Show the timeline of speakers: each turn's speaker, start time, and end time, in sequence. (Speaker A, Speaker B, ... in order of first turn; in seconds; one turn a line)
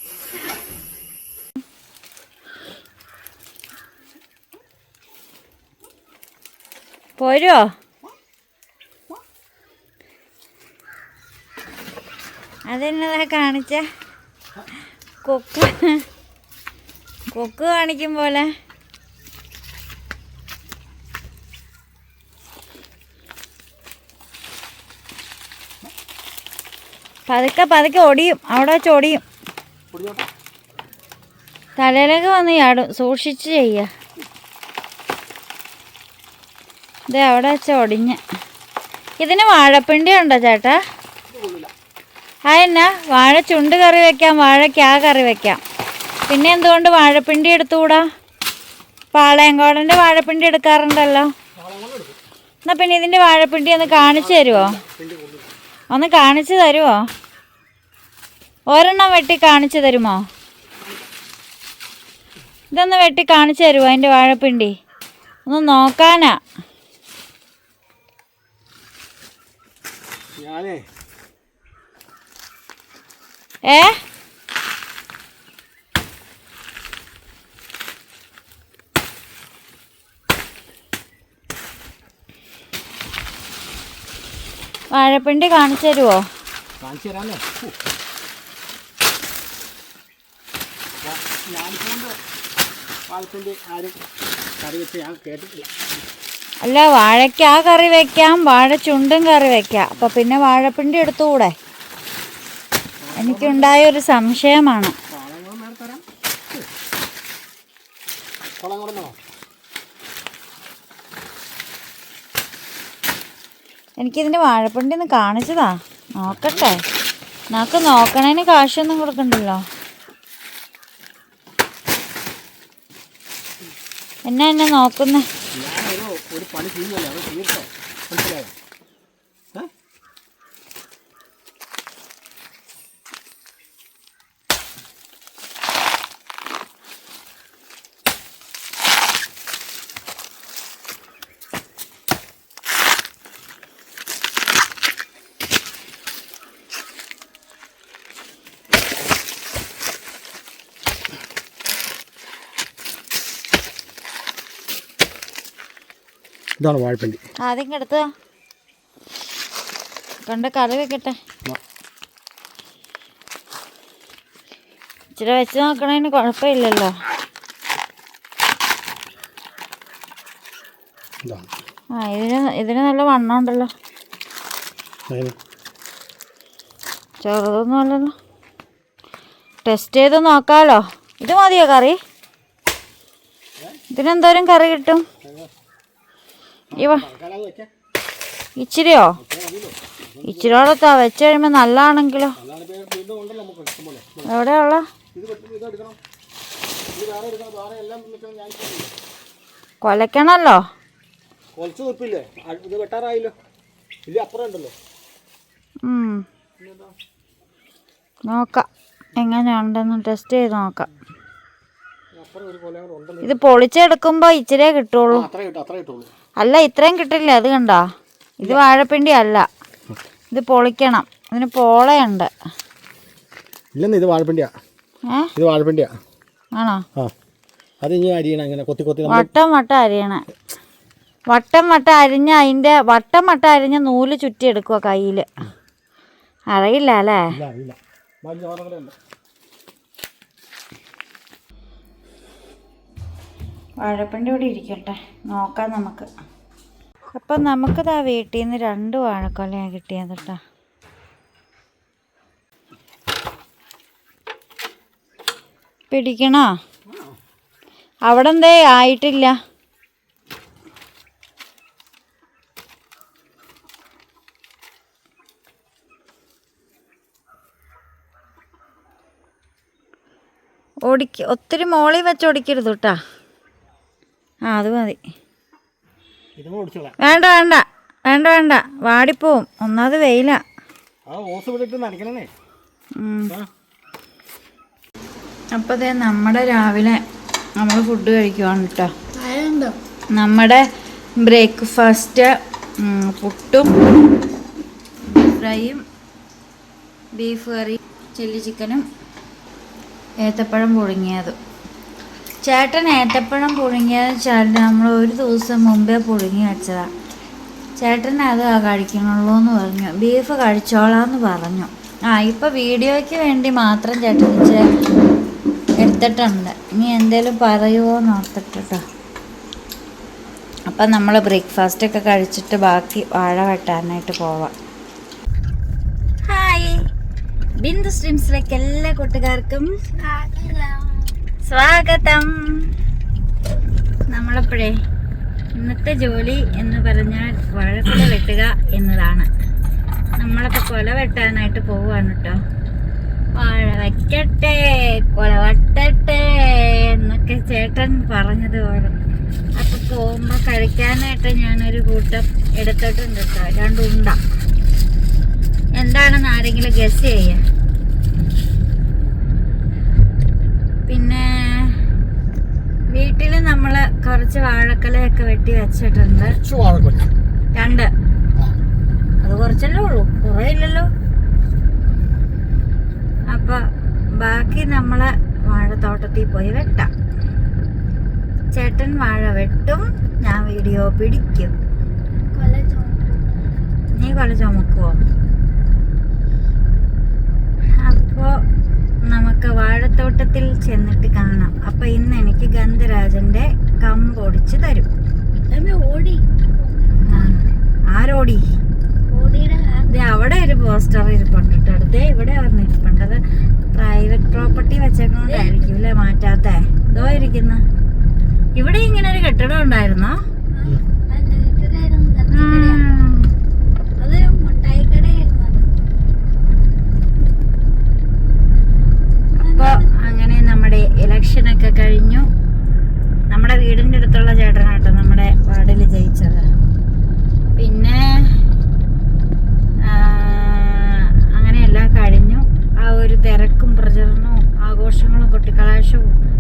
Speaker A: 7.2-7.7
Speaker A: 12.7-13.8
Speaker A: 15.2-16.0
Speaker A: 17.3-18.5
Speaker A: 27.3-29.2
Speaker B: 29.9-30.3
Speaker A: 31.8-33.9
Speaker A: 37.1-38.2
Speaker A: 39.2-40.8
Speaker B: 41.3-41.7
Speaker A: 42.5-45.6
Speaker A: 46.3-48.0
Speaker A: 49.1-51.3
Speaker B: 51.5-52.2
Speaker A: 52.6-54.8
Speaker B: 53.8-55.5
Speaker A: 55.9-57.0
Speaker A: 58.7-60.2
Speaker A: 62.7-64.7
Speaker A: 65.5-66.4
Speaker B: 70.4-70.9
Speaker A: 73.7-74.0
Speaker A: 84.9-86.3
Speaker B: 86.8-87.7
Speaker B: 91.0-92.2
Speaker B: 93.1-94.0
Speaker B: 94.6-95.8
Speaker A: 96.6-101.5
Speaker B: 103.0-103.8
Speaker A: 103.2-104.9
Speaker B: 105.1-106.7
Speaker B: 108.6-109.2
Speaker A: 114.0-116.8
Speaker B: 116.3-116.7
Speaker A: 117.5-119.6
Speaker A: 124.3-125.2
Speaker B: 125.5-128.5
Speaker B: 156.6-157.2
Speaker A: 157.4-158.1
Speaker A: 160.2-161.2
Speaker A: 165.2-166.9
Speaker B: 171.2-171.5
Speaker A: 171.9-173.7
Speaker B: 175.1-175.3
Speaker A: 177.2-178.1
Speaker A: 179.6-182.0
Speaker A: 183.9-185.0
Speaker B: 185.2-185.5
Speaker B: 186.7-187.7
Speaker A: 186.7-187.1
Speaker A: 188.6-189.2
Speaker B: 189.2-190.7
Speaker A: 190.2-192.4
Speaker B: 192.4-194.3
Speaker A: 194.2-194.8
Speaker B: 195.1-196.0
Speaker B: 196.9-198.9
Speaker A: 199.8-200.6
Speaker B: 201.6-203.3
Speaker B: 204.1-204.7
Speaker A: 205.8-206.2
Speaker B: 206.6-206.9
Speaker A: 208.3-210.9
Speaker B: 212.1-213.5
Speaker A: 213.2-215.3
Speaker B: 215.1-216.1
Speaker A: 216.4-217.8
Speaker A: 218.4-219.5
Speaker A: 220.3-222.3
Speaker B: 223.7-224.5
Speaker B: 225.3-226.0
Speaker A: 226.6-226.8
Speaker B: 227.8-229.3
Speaker A: 229.1-230.2
Speaker A: 231.3-235.3
Speaker A: 236.5-237.3
Speaker B: 237.3-238.9
Speaker A: 243.8-246.1
Speaker A: 247.1-250.4
Speaker A: 255.9-256.5
Speaker A: 258.1-259.3
Speaker A: 270.9-273.0
Speaker A: 274.5-275.0
Speaker B: 276.4-276.9
Speaker A: 277.0-280.4
Speaker B: 281.1-282.3
Speaker A: 283.0-283.3
Speaker A: 285.6-287.0
Speaker A: 287.6-288.9
Speaker C: 289.1-289.8
Speaker A: 290.1-290.6
Speaker A: 291.2-293.8
Speaker A: 295.1-295.8
Speaker A: 297.1-298.9
Speaker A: 300.2-301.4
Speaker A: 302.4-306.9
Speaker A: 307.8-314.6
Speaker A: 315.8-318.8
Speaker A: 320.7-324.5
Speaker A: 326.3-326.8
Speaker A: 327.6-329.7
Speaker C: 330.0-331.1
Speaker A: 331.4-332.7
Speaker A: 334.1-334.7
Speaker A: 335.5-339.3
Speaker A: 340.2-342.4
Speaker A: 343.4-349.0
Speaker A: 349.6-354.2
Speaker A: 355.8-357.4
Speaker A: 360.9-361.8
Speaker A: 362.9-366.4
Speaker B: 366.4-367.1
Speaker A: 367.5-367.9
Speaker A: 369.2-370.9
Speaker A: 373.3-373.6
Speaker A: 374.2-376.9
Speaker A: 378.5-381.5
Speaker C: 382.3-383.5
Speaker A: 383.9-385.0
Speaker A: 387.8-388.3
Speaker A: 389.1-394.9
Speaker C: 395.4-397.4
Speaker A: 397.0-397.4
Speaker A: 397.9-398.4
Speaker C: 399.1-399.9
Speaker A: 399.9-403.2
Speaker A: 403.7-407.6
Speaker C: 405.3-405.7
Speaker C: 406.9-407.3
Speaker A: 408.5-410.1
Speaker C: 410.5-412.8
Speaker A: 412.3-413.3
Speaker C: 414.0-415.7
Speaker C: 419.3-419.9
Speaker A: 419.5-422.3
Speaker A: 423.3-426.5
Speaker A: 427.6-428.3
Speaker A: 429.8-436.1